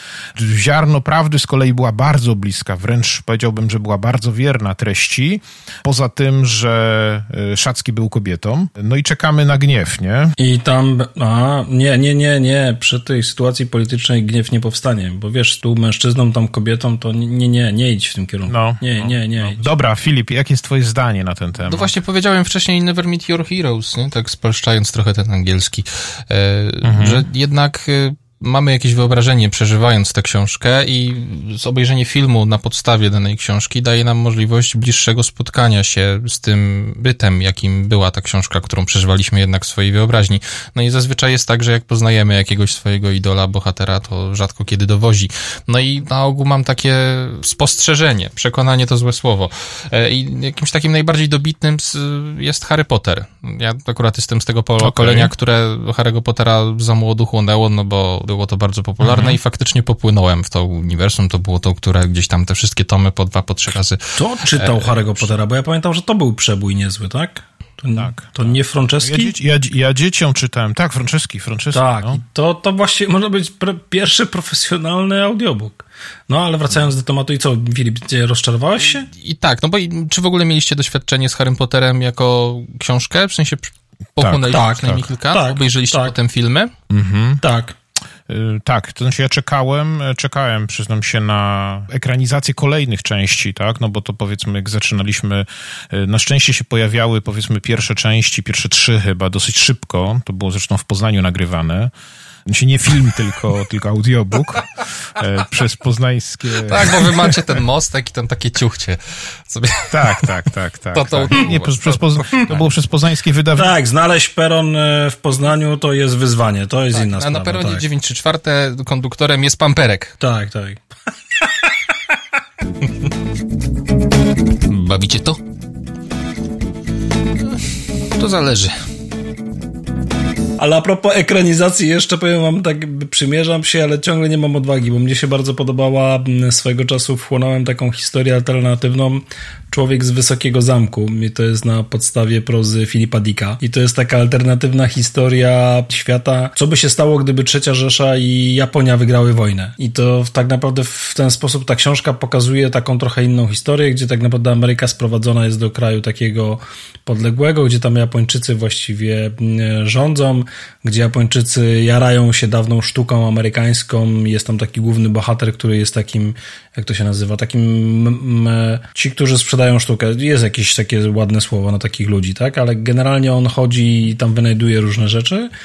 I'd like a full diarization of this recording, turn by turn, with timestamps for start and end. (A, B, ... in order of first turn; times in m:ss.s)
0:00.3-0:10.3 A
0:10.4-0:19.7 B
0:18.5-0:21.9 A
0:21.7-1:05.1 C
0:26.8-0:27.3 A
0:54.8-0:55.3 A
0:59.0-0:59.4 A
1:04.2-1:09.3 B
1:08.0-1:12.2 A
1:11.7-1:19.1 B
1:18.9-1:26.7 C
1:24.2-1:24.5 A
1:24.4-1:26.1 B
1:26.9-1:27.4 A
1:27.4-1:27.8 B
1:28.3-1:41.9 A
1:42.4-1:47.4 A
1:46.5-1:50.4 C
1:49.9-1:53.7 A
1:50.9-1:52.7 C
1:53.6-1:57.8 B
1:56.9-2:00.2 C
2:00.2-2:00.8 B
2:01.4-2:02.2 B
2:04.7-2:05.4 C
2:08.1-2:08.8 C
2:10.6-2:55.5 B